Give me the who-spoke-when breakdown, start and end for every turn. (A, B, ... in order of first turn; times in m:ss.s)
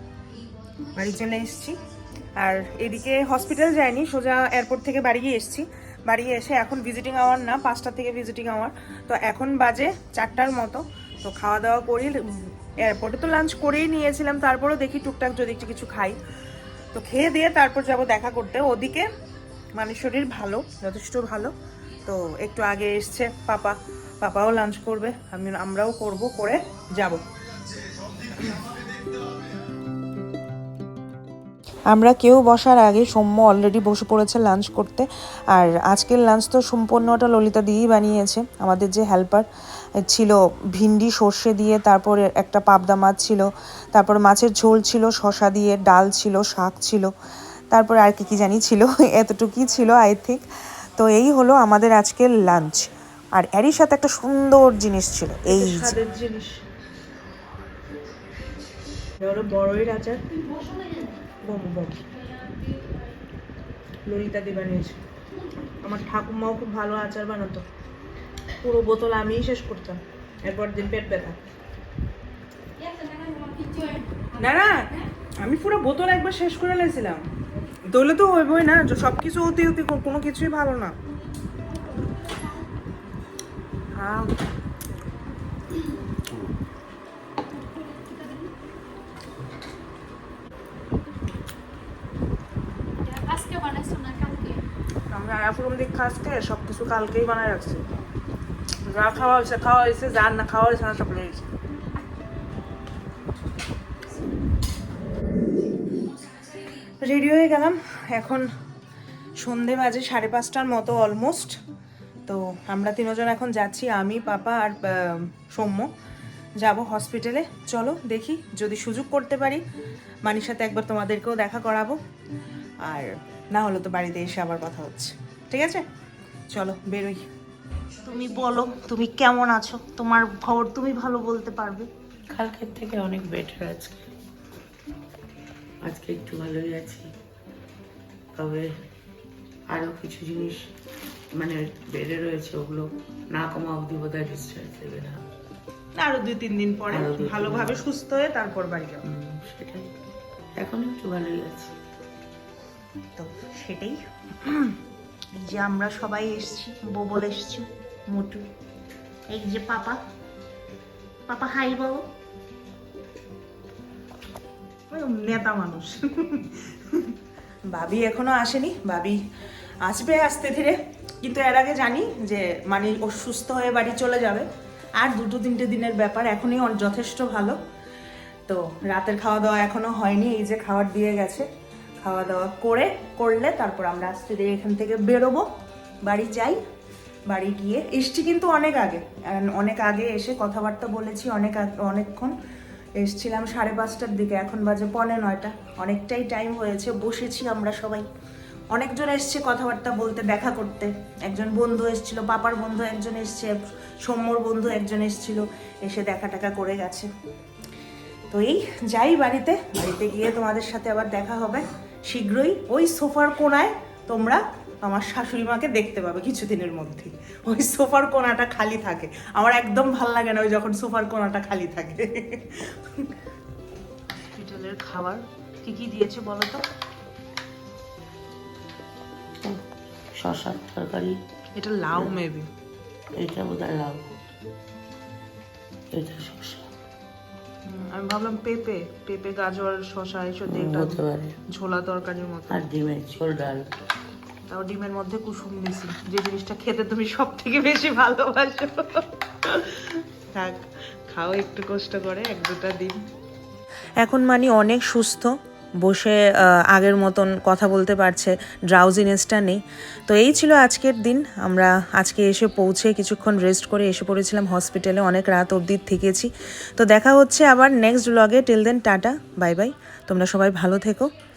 0:01.0-0:01.8 A
0:02.4-0:16.2 A
0:16.9-0:19.1 A
0:19.8-0:21.5 A
0:22.1-0:27.2 A
0:31.9-0:39.5 A
0:40.0-0:47.1 A
0:47.7-0:50.4 A
0:51.0-0:56.5 A
0:59.2-1:00.2 A
1:01.4-1:02.0 A
1:04.1-1:05.0 A
1:05.8-1:07.6 A
1:08.6-1:11.4 A
1:12.8-1:15.0 B
1:14.4-1:17.2 A
1:17.9-1:20.9 A
1:24.0-1:24.4 A
1:27.9-1:28.5 B
1:33.0-1:34.6 B
1:35.1-1:37.8 A
1:38.8-1:41.5 A
1:47.0-1:48.5 A
1:49.4-1:51.6 A
1:52.3-1:55.9 A
1:56.6-1:59.6 A
2:00.2-2:02.0 A
2:02.8-2:05.8 A
2:06.5-2:07.3 A
2:08.1-2:11.9 A
2:12.4-2:14.1 C
2:15.8-2:17.1 C
2:18.4-2:18.7 C
2:19.7-2:20.7 C
2:21.4-2:25.2 C
2:26.0-2:29.0 A
2:26.9-2:27.9 C
2:29.1-2:29.9 C
2:30.6-2:31.7 C
2:33.2-2:34.7 A
2:35.4-2:38.4 A
2:39.3-2:40.0 A
2:41.3-2:42.0 A
2:44.9-2:47.1 A
2:47.7-2:49.2 A
2:49.8-2:54.5 A
2:55.0-2:57.6 A
2:58.5-3:01.5 A
3:02.0-3:05.5 A
3:06.0-3:06.6 A
3:07.3-3:12.4 A
3:13.0-3:18.1 A
3:18.7-3:27.1 A
3:28.3-3:42.7 A
3:44.4-3:46.6 A
3:50.2-3:51.2 C
3:51.6-3:52.5 A
3:53.2-3:54.1 C
3:55.9-3:56.7 C
3:57.7-4:02.6 A
4:00.5-4:01.4 C
4:02.5-4:03.7 C
4:04.5-4:13.0 A
4:14.0-4:31.1 A